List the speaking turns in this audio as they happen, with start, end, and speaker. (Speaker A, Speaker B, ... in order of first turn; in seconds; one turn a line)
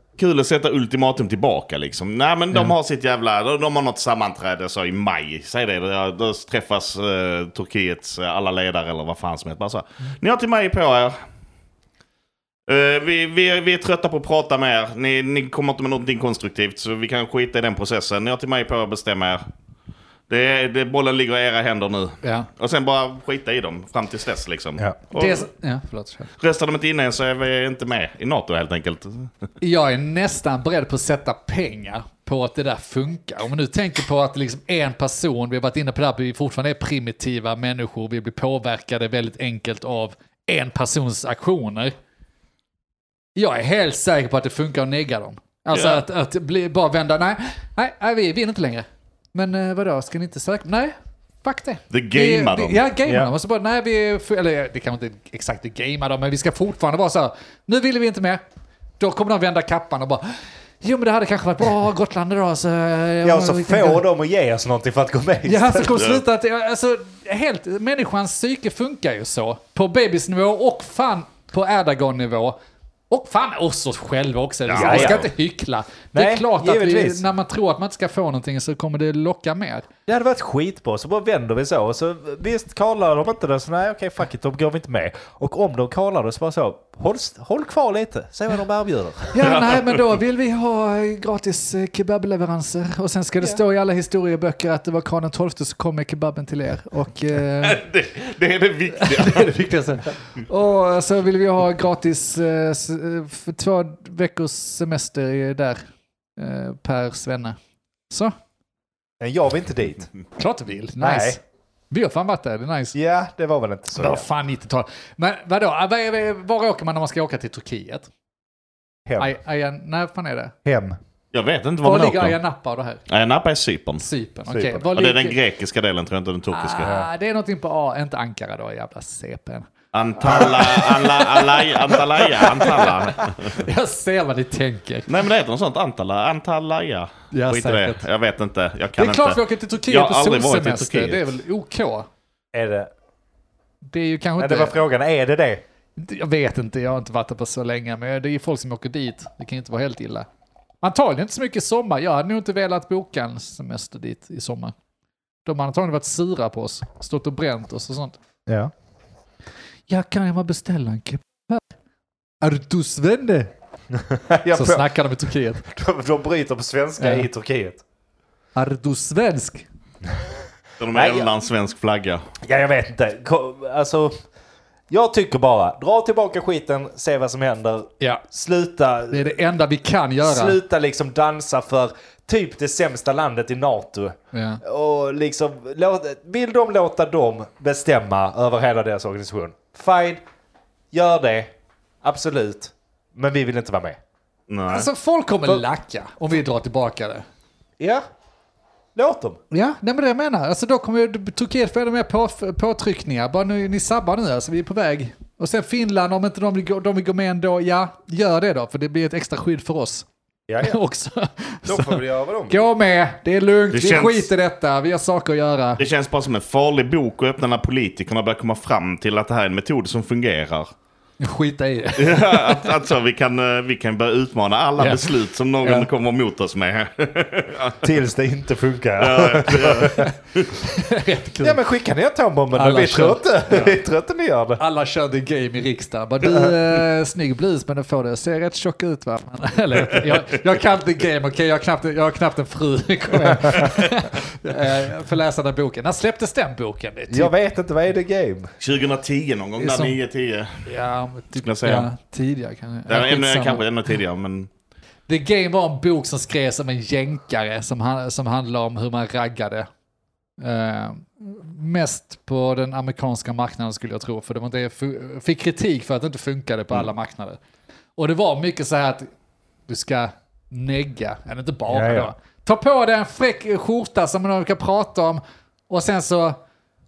Speaker A: 0.2-11.2
Speaker A: 12.7-19.4
Speaker A: 20.3-25.4
Speaker B: 22.2-22.5
Speaker B: 25.1-26.3
Speaker A: 26.4-29.4
Speaker B: 29.6-42.0
Speaker B: 43.4-58.4
Speaker A: 45.7-46.0
Speaker A: 51.9-52.8
Speaker C: 53.0-53.3
Speaker B: 59.0-64.0
Speaker C: 63.2-66.0
Speaker B: 65.5-72.6
Speaker A: 66.0-66.2
Speaker B: 73.1-79.9
Speaker A: 74.7-75.3
Speaker C: 74.7-75.3
Speaker C: 76.1-77.2
Speaker C: 80.1-89.5
Speaker B: 89.3-97.8
Speaker A: 89.4-89.8
Speaker A: 97.6-99.5
Speaker B: 99.0-105.8
Speaker B: 106.4-107.6
Speaker C: 109.2-110.1
Speaker B: 110.4-111.4
Speaker C: 111.0-111.4
Speaker B: 111.9-113.0
Speaker C: 112.9-114.3
Speaker B: 114.0-118.1
Speaker C: 119.1-119.3
Speaker B: 119.2-120.5
Speaker C: 120.7-121.0
Speaker A: 121.3-122.4
Speaker B: 121.8-123.0
Speaker A: 123.1-124.0
Speaker B: 124.0-125.4
Speaker C: 124.5-124.9
Speaker A: 124.9-126.9
Speaker B: 126.5-129.7
Speaker C: 126.8-127.1
Speaker A: 129.9-133.7
Speaker B: 130.2-135.1
Speaker A: 135.1-141.3
Speaker B: 137.3-138.1
Speaker B: 139.0-142.1
Speaker C: 142.5-142.9
Speaker B: 143.9-144.8
Speaker C: 144.4-145.6
Speaker B: 146.0-150.3
Speaker B: 150.8-154.7
Speaker B: 155.5-158.2
Speaker C: 158.5-158.7
Speaker B: 159.9-161.6
Speaker B: 162.4-163.5
Speaker C: 163.9-164.9
Speaker B: 164.5-165.6
Speaker C: 165.7-167.8
Speaker B: 167.0-167.3
Speaker B: 168.6-169.7
Speaker A: 170.8-172.2
Speaker C: 170.9-171.3
Speaker C: 172.4-174.2
Speaker C: 174.9-179.4
Speaker B: 179.1-180.6
Speaker C: 180.2-190.2
Speaker B: 184.3-184.6
Speaker C: 190.9-191.5
Speaker C: 192.0-194.0
Speaker A: 194.5-194.9
Speaker B: 194.7-197.2
Speaker C: 198.9-199.4
Speaker B: 199.5-210.1
Speaker C: 210.5-210.8
Speaker B: 210.6-215.8
Speaker C: 211.7-212.6
Speaker A: 213.7-214.3
Speaker A: 215.8-220.7
Speaker B: 221.2-222.7
Speaker A: 222.0-227.9
Speaker B: 224.8-225.9
Speaker C: 227.8-230.1
Speaker A: 229.0-230.6
Speaker B: 230.6-231.6
Speaker C: 231.4-234.6
Speaker B: 232.5-233.8
Speaker B: 234.6-247.3
Speaker C: 236.2-236.6
Speaker C: 247.1-248.5
Speaker A: 248.6-250.6
Speaker B: 249.6-250.0
Speaker B: 250.7-253.6
Speaker A: 251.4-251.9
Speaker A: 252.9-254.5
Speaker B: 255.1-259.7
Speaker B: 260.4-267.4
Speaker B: 268.0-269.1
Speaker B: 269.7-276.4
Speaker C: 271.7-272.1